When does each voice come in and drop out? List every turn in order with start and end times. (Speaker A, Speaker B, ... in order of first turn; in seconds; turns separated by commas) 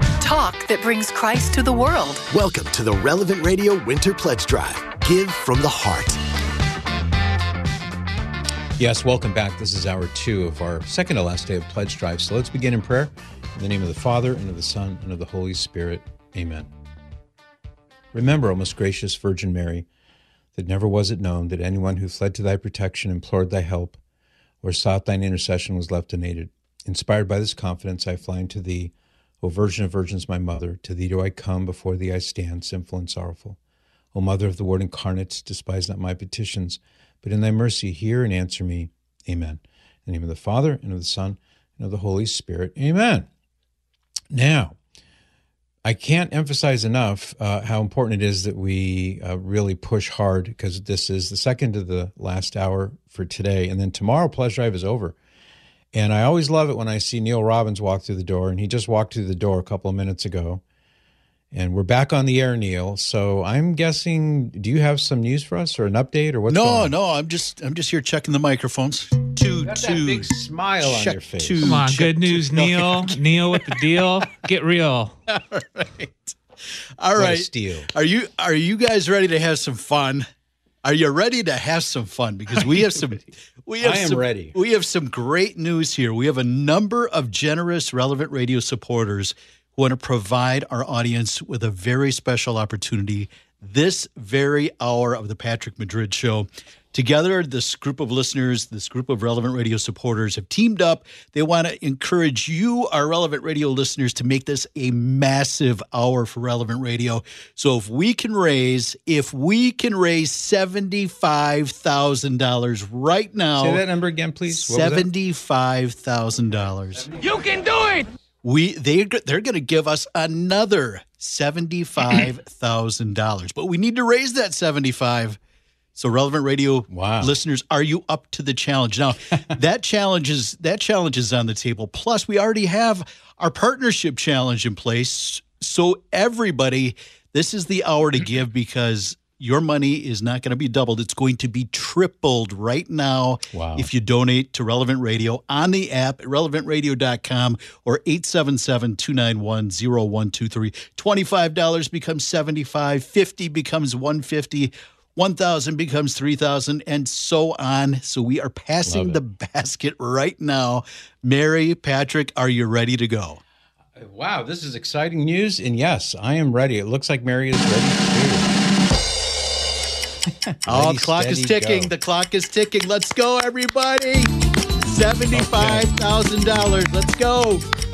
Speaker A: 0.2-2.2, Speaker B: 2.3-6.2, Speaker C: 8.8-16.7, Speaker C: 18.1-19.9, Speaker C: 20.5-24.0, Speaker C: 24.6-33.6, Speaker C: 34.1-43.3, Speaker C: 44.3-44.8, Speaker C: 45.8-55.1, Speaker C: 55.9-60.6, Speaker C: 61.5-66.9, Speaker D: 66.5-74.3, Speaker C: 69.6-71.8, Speaker E: 71.6-75.1, Speaker D: 75.3-76.4, Speaker D: 77.0-80.3, Speaker C: 77.2-77.9, Speaker D: 80.8-113.8, Speaker C: 83.8-84.5, Speaker C: 113.6-115.1, Speaker D: 114.5-117.2, Speaker D: 118.4-125.4, Speaker D: 125.9-163.4, Speaker C: 126.9-127.3, Speaker C: 143.5-143.9, Speaker C: 158.8-159.2, Speaker C: 163.9-168.6, Speaker C: 170.3-171.9, Speaker D: 170.7-177.6, Speaker C: 175.3-175.9